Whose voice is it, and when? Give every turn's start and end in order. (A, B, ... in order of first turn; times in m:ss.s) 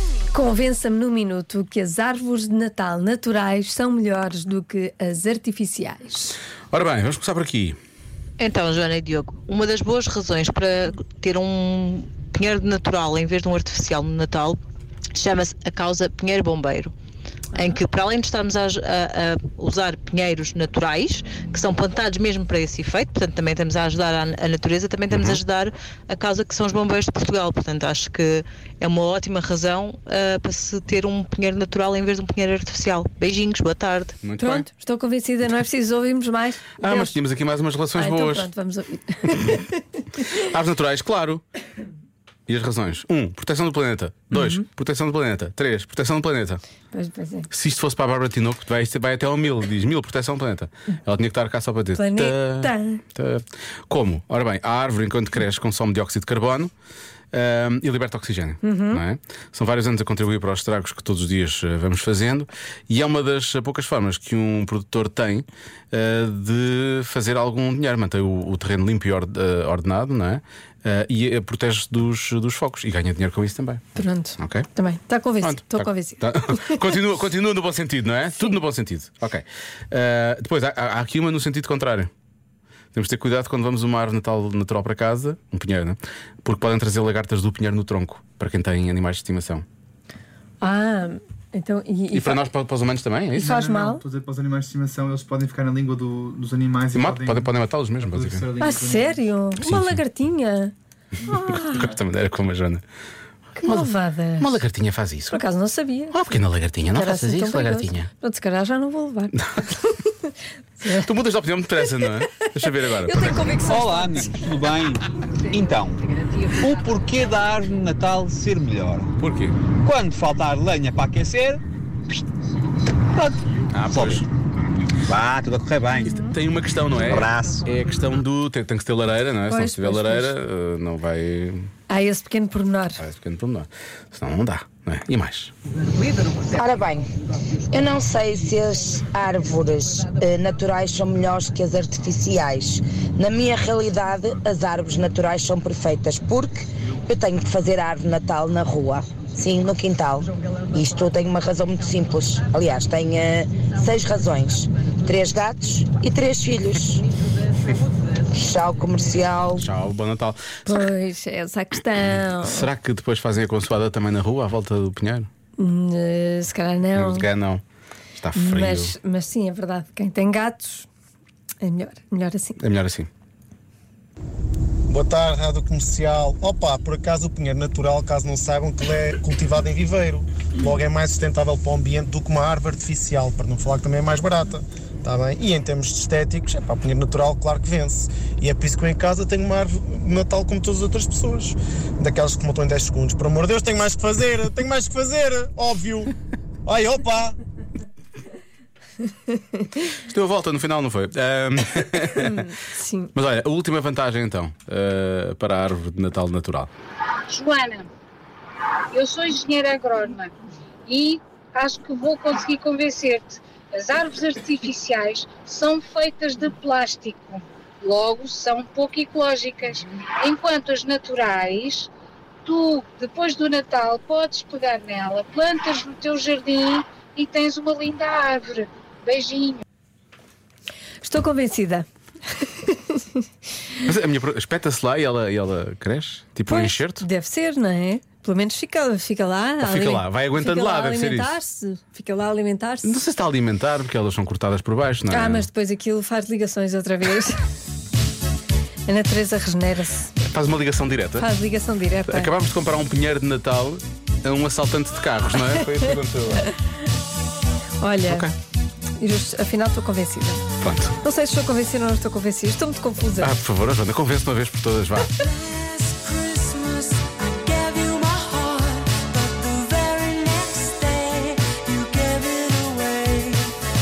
0:00.3-0:06.4 A
0:06.7-0:07.8 B
0:08.4-0:14.6 C
0:15.1-0:16.9 C
0:17.5-0:34.1 C
0:25.1-0:25.4 B
0:34.2-0:34.6 B
0:34.4-0:37.1 A
0:36.8-0:38.5 B
0:37.9-0:39.8 A
0:40.4-0:41.4 B
0:42.5-0:46.6 B
0:44.3-0:44.6 A
0:46.9-0:47.5 A
0:47.5-0:56.7 B
0:52.0-0:53.0 A
0:57.3-1:14.7 B
0:58.6-0:59.0 A
1:14.0-1:16.9 A
1:15.4-1:22.1 B
1:22.9-1:29.6 B
1:30.6-1:32.4 A
1:32.1-1:33.5 B
1:33.4-1:34.0 A
1:33.4-1:39.4 D
1:36.9-1:38.5 B
1:38.6-1:40.7 A
1:39.6-1:40.0 B
1:41.3-1:41.8 A
1:41.4-1:42.8 B
1:43.6-1:44.6 A
1:43.6-1:45.4 B
1:45.3-1:46.2 A
1:46.1-1:48.1 B
1:46.9-1:50.1 A
1:50.8-1:51.1 A
1:50.9-1:53.4 B
1:52.9-1:54.4 A
1:53.6-1:59.1 E
1:59.2-1:59.6 B
1:59.7-2:01.6 E
2:03.1-2:04.2 E
2:03.7-2:04.2 B
2:05.1-2:06.2 E
2:06.1-2:11.7 B
2:07.0-2:07.7 E
2:09.5-2:10.3 A
2:11.9-2:13.0 A
2:13.0-2:15.5 B
2:16.5-2:17.0 F
2:17.7-2:37.0 F
2:38.3-2:39.6 F
2:39.5-2:40.6 B
2:40.6-2:42.7 A
2:42.4-2:45.3 B
2:45.6-2:47.3 A
2:46.9-2:47.6 B
2:48.2-2:48.9 B
2:48.3-2:50.9 A
2:51.6-2:52.6 A
2:52.6-2:53.1 B
2:54.9-3:16.1 G
3:16.6-3:17.4 G
3:19.9-3:22.5 B
3:22.2-3:23.1 A
3:23.1-3:26.7 B
3:27.3-3:27.9 H
3:28.9-3:30.3 H
3:30.9-3:41.9 H
3:42.4-3:49.6 H
3:51.0-3:51.8 A
3:52.6-3:53.0 A
3:53.8-3:57.0 B
3:56.5-4:02.9 A
3:59.6-4:01.4 B
4:02.8-4:05.5 B
4:05.1-4:07.4 A
4:08.9-4:10.1 A
4:10.3-4:11.3 B
4:11.2-4:12.3 A
4:12.1-4:16.5 B
4:15.4-4:16.5 A
4:17.8-4:18.3 A
4:18.1-4:18.3 B
4:19.0-4:20.4 A
4:20.6-4:21.0 B
4:21.0-4:23.3 A
4:23.2-4:25.2 B
4:25.7-4:33.0 I